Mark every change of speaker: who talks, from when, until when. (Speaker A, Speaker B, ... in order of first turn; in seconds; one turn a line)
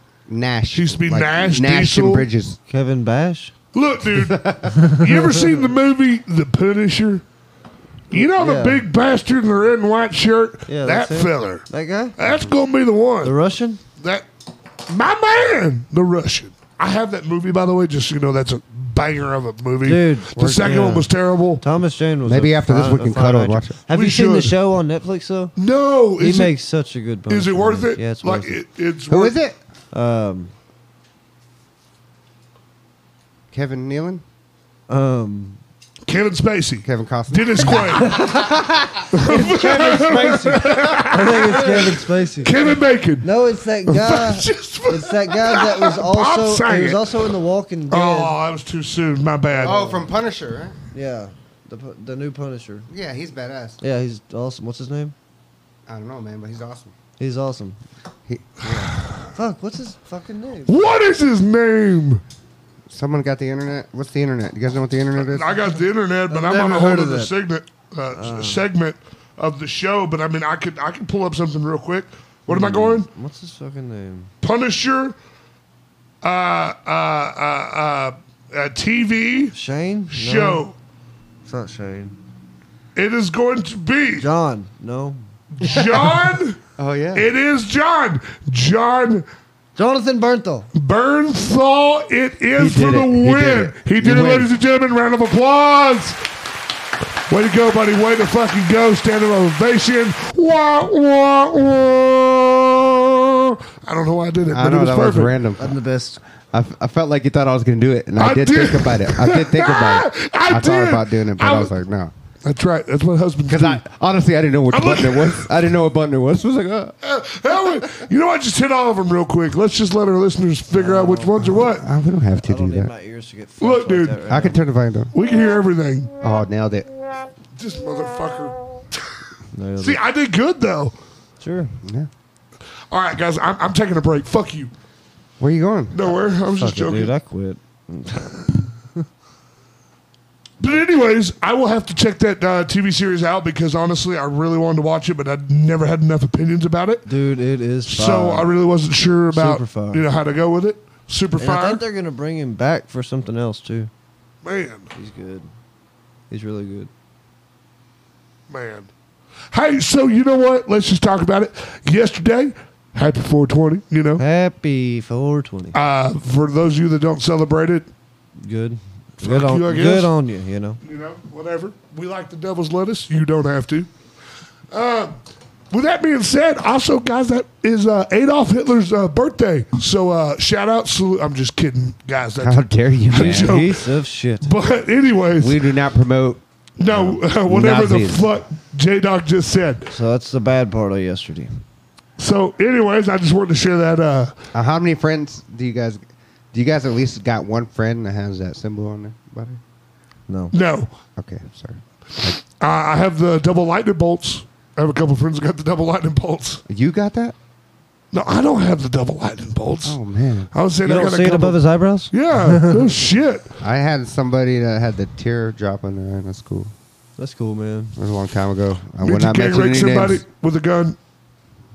Speaker A: 0.3-2.6
Speaker B: 0.7-2.3
Speaker C: 2.7-3.5
Speaker B: 3.7-7.2
Speaker A: 4.1-4.8
Speaker C: 4.7-5.7
Speaker B: 8.1-11.7
Speaker C: 8.1-8.8
Speaker C: 10.7-12.5
Speaker B: 12.2-13.3
Speaker C: 13.2-13.8
Speaker B: 14.0-14.2
Speaker B: 14.9-21.6
Speaker C: 19.8-21.1
Speaker A: 20.4-20.7
Speaker C: 21.6-25.5
Speaker A: 22.2-23.8
Speaker B: 23.9-24.5
Speaker B: 25.6-26.5
Speaker C: 26.2-28.6
Speaker B: 27.3-29.4
Speaker A: 29.1-29.6
Speaker C: 29.9-30.5
Speaker A: 33.5-34.2
Speaker C: 34.9-35.6
Speaker B: 36.1-38.3
Speaker A: 36.8-41.7
Speaker C: 38.0-38.6
Speaker B: 39.1-41.9
Speaker C: 39.1-48.4
Speaker B: 42.4-43.3
Speaker B: 43.9-47.3
Speaker B: 47.9-49.8
Speaker C: 49.5-50.0
Speaker A: 49.6-50.8
Speaker C: 50.9-52.9
Speaker A: 52.9-53.8
Speaker C: 53.8-55.1
Speaker A: 55.9-56.9
Speaker C: 57.2-57.8
Speaker A: 58.3-58.6
Speaker C: 58.6-60.8
Speaker B: 60.7-62.2
Speaker A: 62.9-65.5
Speaker B: 65.2-73.1
Speaker C: 66.3-67.3
Speaker C: 68.1-68.7
Speaker C: 72.5-74.3
Speaker B: 74.4-75.1
Speaker B: 76.2-79.5
Speaker C: 79.5-80.6
Speaker B: 80.1-80.7
Speaker C: 81.5-82.2
Speaker B: 83.0-84.3
Speaker C: 84.2-86.1
Speaker B: 85.6-86.6
Speaker A: 86.8-87.3
Speaker B: 87.1-89.2
Speaker C: 89.8-90.7
Speaker B: 90.7-96.2
Speaker A: 92.6-94.5
Speaker B: 97.3-105.3
Speaker A: 104.5-105.7
Speaker C: 105.6-106.2
Speaker A: 106.5-112.1
Speaker B: 108.2-111.7
Speaker B: 112.4-113.8
Speaker A: 113.5-117.0
Speaker B: 114.7-115.5
Speaker B: 117.0-121.8
Speaker C: 120.7-121.4
Speaker A: 121.4-122.9
Speaker C: 122.4-124.6
Speaker B: 123.6-124.2
Speaker A: 124.3-125.1
Speaker B: 125.1-126.1
Speaker A: 126.2-126.9
Speaker B: 127.6-129.0
Speaker C: 129.5-130.0
Speaker B: 129.8-130.9
Speaker C: 131.4-131.7
Speaker A: 131.8-132.1
Speaker B: 132.9-134.7
Speaker A: 135.4-136.1
Speaker B: 135.9-137.1
Speaker C: 136.5-138.7
Speaker B: 140.6-147.1
Speaker C: 147.1-148.5
Speaker B: 147.8-151.8
Speaker C: 149.3-150.0
Speaker C: 151.4-153.9
Speaker B: 154.4-154.9
Speaker C: 154.9-155.5
Speaker C: 156.3-156.9
Speaker B: 158.5-158.9
Speaker B: 159.5-164.2
Speaker C: 164.2-165.8
Speaker B: 165.7-167.9
Speaker C: 168.4-170.8
Speaker B: 169.2-170.1
Speaker B: 170.8-173.9
Speaker B: 174.7-175.1
Speaker B: 175.7-183.9
Speaker A: 182.4-183.6
Speaker C: 183.2-184.5
Speaker B: 184.4-185.6
Speaker A: 185.4-188.3
Speaker B: 186.8-189.9
Speaker C: 189.9-191.6
Speaker B: 192.2-194.3
Speaker A: 194.5-199.6
Speaker C: 200.3-200.5
Speaker B: 200.5-200.9
Speaker A: 201.2-202.4
Speaker B: 202.6-206.6
Speaker A: 206.7-207.3
Speaker B: 208.1-210.0
Speaker A: 209.8-210.5
Speaker B: 210.5-213.5
Speaker C: 210.8-212.9
Speaker A: 213.6-216.7
Speaker C: 217.2-217.9
Speaker A: 218.0-220.2
Speaker B: 219.0-221.0